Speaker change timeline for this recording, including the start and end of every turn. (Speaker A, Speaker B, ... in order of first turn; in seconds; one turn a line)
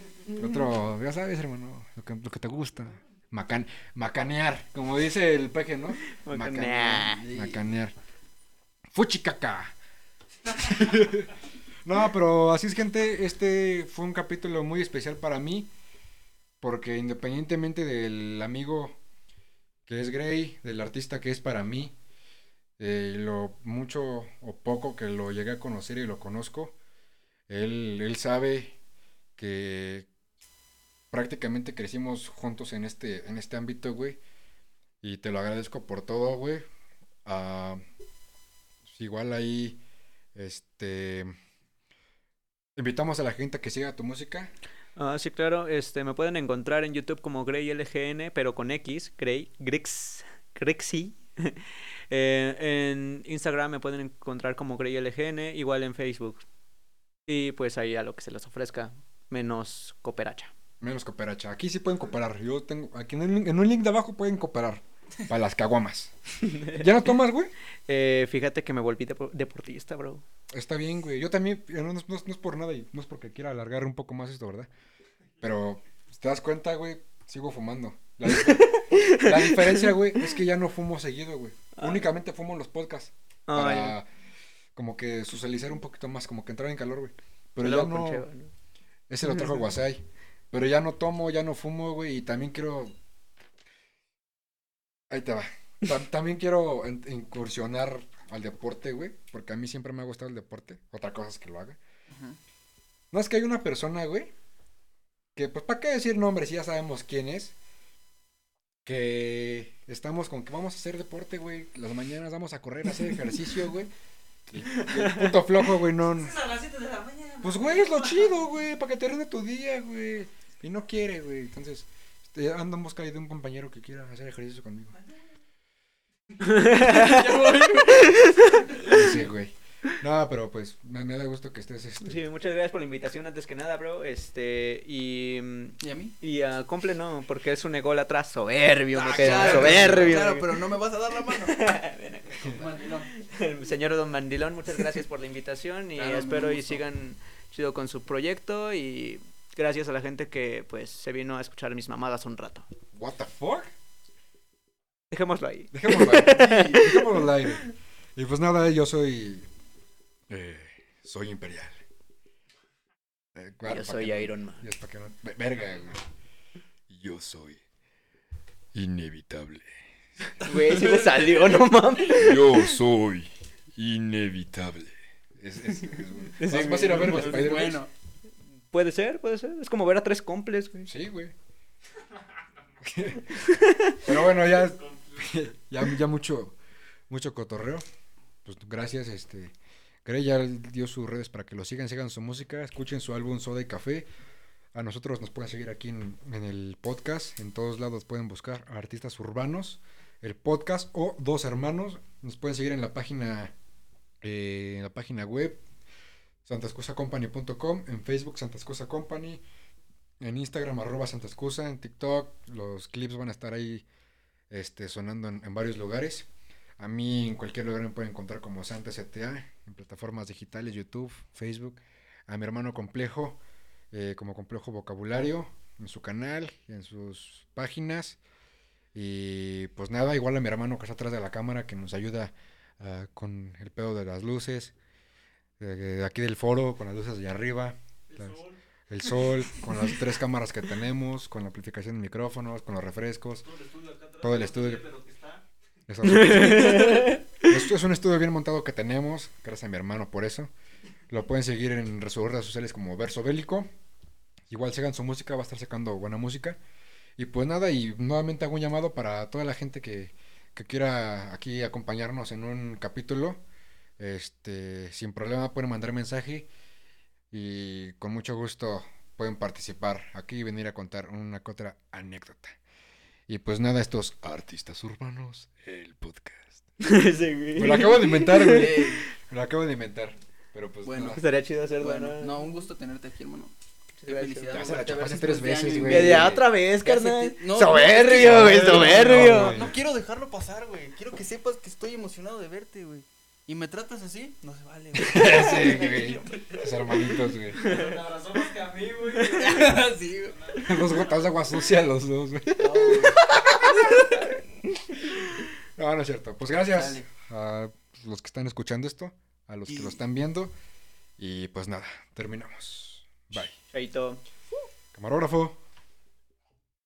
Speaker A: 0.4-8.0
Speaker B: 6.1-7.2
Speaker C: 7.2-7.6
Speaker A: 8.9-9.8
Speaker A: 10.5-15.7
Speaker A: 16.6-19.0
Speaker A: 19.9-22.0
Speaker A: 22.8-26.8
Speaker A: 27.5-28.8
Speaker A: 29.4-30.1
Speaker A: 31.1-34.2
Speaker A: 35.0-36.7
Speaker A: 37.2-37.8
Speaker A: 38.9-39.8
Speaker A: 40.4-41.3
Speaker A: 42.8-44.5
Speaker B: 45.0-56.4
Speaker B: 57.3-60.5
Speaker A: 60.8-67.5
Speaker B: 66.4-66.9
Speaker B: 67.9-70.2
Speaker A: 70.5-74.7
Speaker A: 75.4-84.1
Speaker B: 78.4-79.9
Speaker B: 81.8-82.1
Speaker B: 83.5-84.0
Speaker A: 84.8-88.3
Speaker B: 87.6-88.5
Speaker A: 89.1-93.0
Speaker A: 95.1-101.8
Speaker C: 102.1-102.4
Speaker A: 103.1-104.3
Speaker A: 105.3-107.5
Speaker A: 108.8-113.9
Speaker A: 114.5-116.4
Speaker B: 115.0-115.2
Speaker D: 116.1-118.3
Speaker A: 117.4-125.0
Speaker B: 126.4-128.8
Speaker C: 126.7-129.2
Speaker A: 128.9-132.2
Speaker B: 132.0-140.5
Speaker C: 135.8-136.1
Speaker C: 138.9-141.7
Speaker A: 139.2-140.1
Speaker B: 141.3-152.7
Speaker C: 142.4-143.1
Speaker C: 146.0-146.8
Speaker A: 152.9-153.7
Speaker B: 155.1-157.3
Speaker A: 155.7-159.5
Speaker C: 156.4-156.7
Speaker A: 160.3-161.8
Speaker A: 163.3-166.1
Speaker B: 163.7-164.6
Speaker A: 166.9-167.6
Speaker A: 168.7-169.8
Speaker B: 170.4-172.8
Speaker C: 170.4-171.6
Speaker A: 172.1-177.8
Speaker B: 176.4-177.6
Speaker C: 176.8-177.9
Speaker B: 178.7-180.9
Speaker A: 180.9-181.3
Speaker A: 182.8-183.3
Speaker B: 183.3-184.0
Speaker A: 184.0-186.6
Speaker D: 184.5-185.4
Speaker A: 187.1-187.8
Speaker A: 188.4-194.1
Speaker A: 194.7-203.5
Speaker A: 204.2-205.6
Speaker A: 206.4-209.4
Speaker A: 210.2-213.8
Speaker A: 214.5-216.3
Speaker A: 216.8-223.4
Speaker A: 223.9-228.2
Speaker A: 228.9-234.8
Speaker A: 235.6-243.4
Speaker D: 238.1-238.6
Speaker D: 243.4-245.5
Speaker A: 244.2-244.8
Speaker A: 245.9-250.5
Speaker B: 246.0-247.2
Speaker A: 251.1-253.7
Speaker A: 254.5-256.6
Speaker A: 257.2-263.4
Speaker A: 264.0-266.5
Speaker A: 267.3-272.6
Speaker A: 273.3-276.6
Speaker B: 276.8-279.0
Speaker A: 277.6-281.2
Speaker C: 278.4-279.1
Speaker C: 280.9-281.2
Speaker B: 281.1-282.4
Speaker C: 281.8-283.5
Speaker B: 284.0-285.0
Speaker C: 284.1-296.2
Speaker A: 284.5-286.4
Speaker B: 285.8-289.6
Speaker A: 287.6-289.8
Speaker B: 295.0-295.7
Speaker A: 295.1-297.6
Speaker D: 297.6-301.6
Speaker B: 297.6-297.9
Speaker B: 299.1-299.5
Speaker C: 299.4-300.5
Speaker A: 300.6-303.2
Speaker C: 302.6-304.2
Speaker B: 303.3-304.1
Speaker A: 305.8-310.5
Speaker C: 309.7-310.0
Speaker A: 311.2-313.6
Speaker B: 313.7-314.2
Speaker A: 314.9-315.6